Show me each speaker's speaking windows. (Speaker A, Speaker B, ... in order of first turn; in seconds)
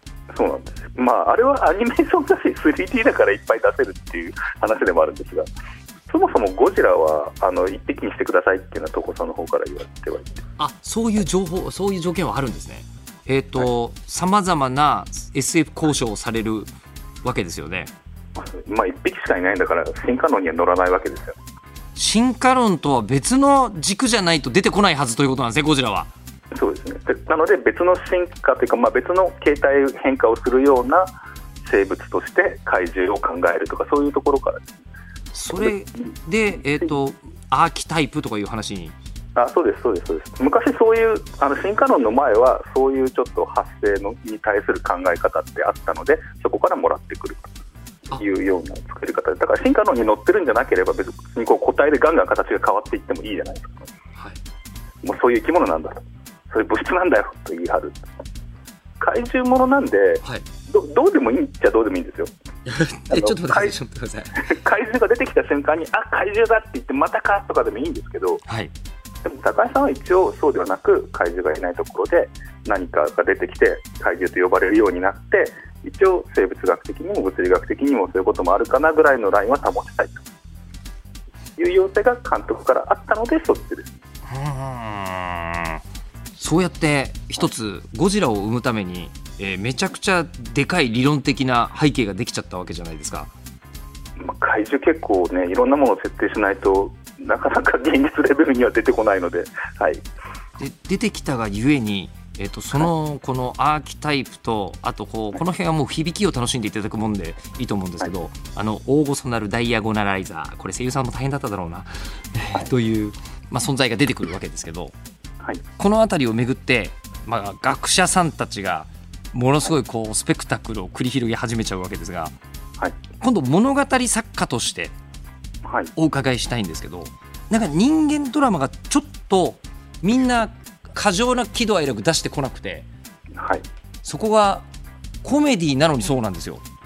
Speaker A: 0.3-5.5, 6.1-10.4, 18.4-21.4, 26.5-31.1, 31.6-34.7, 39.4-47.5, 48.1-53.9, 55.0-58.0, 59.0-62.3, 63.1-63.8, 64.4-68.4, 69.2-80.2, 81.6-84.0, 94.2-100.0, 125.6-125.9, 133.4-133.6
Speaker B: 10.6-16.7, 17.2-17.9, 22.0-26.1, 35.3-38.9, 62.6-64.5, 68.5-68.7, 84.3-85.8, 86.4-93.3, 100.6-114.9, 115.8-122.3, 123.2-124.9, 126.0-132.9, 134.0-134.6, 135.2-136.6